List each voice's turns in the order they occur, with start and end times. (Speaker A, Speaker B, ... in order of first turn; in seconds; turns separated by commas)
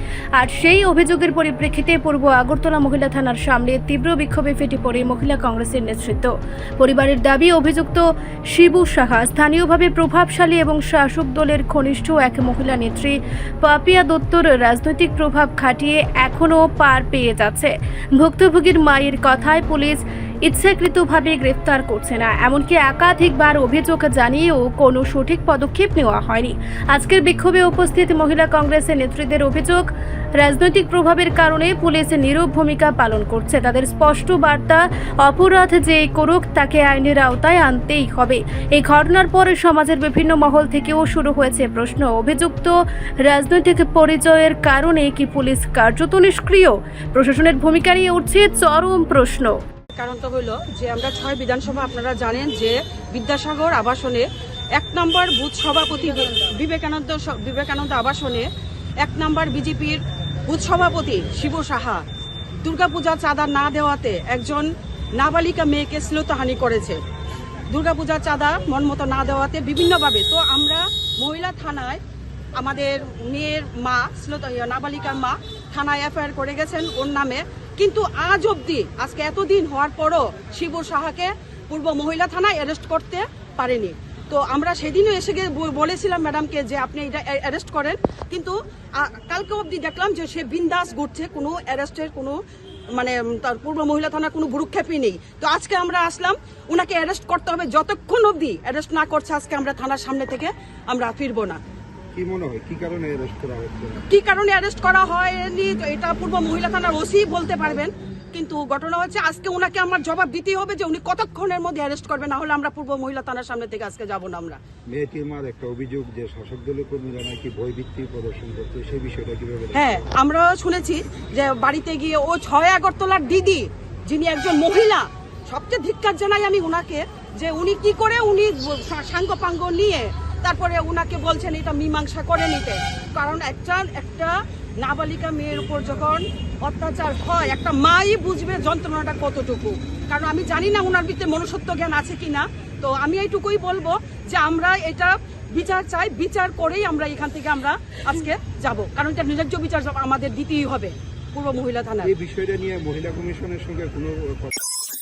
Speaker A: 0.4-29.9, Speaker A: 30.4-49.5, Speaker B: 49.9-58.5, Speaker B: 59.0-62.0, Speaker B: 62.6-67.0, Speaker B: 67.7-72.0, Speaker B: 72.6-92.3, Speaker B: 92.9-101.6, Speaker C: 102.1-104.0, Speaker B: 104.1-114.6, Speaker C: 114.9-120.0, Speaker B: 119.7-152.1, Speaker C: 152.0-154.6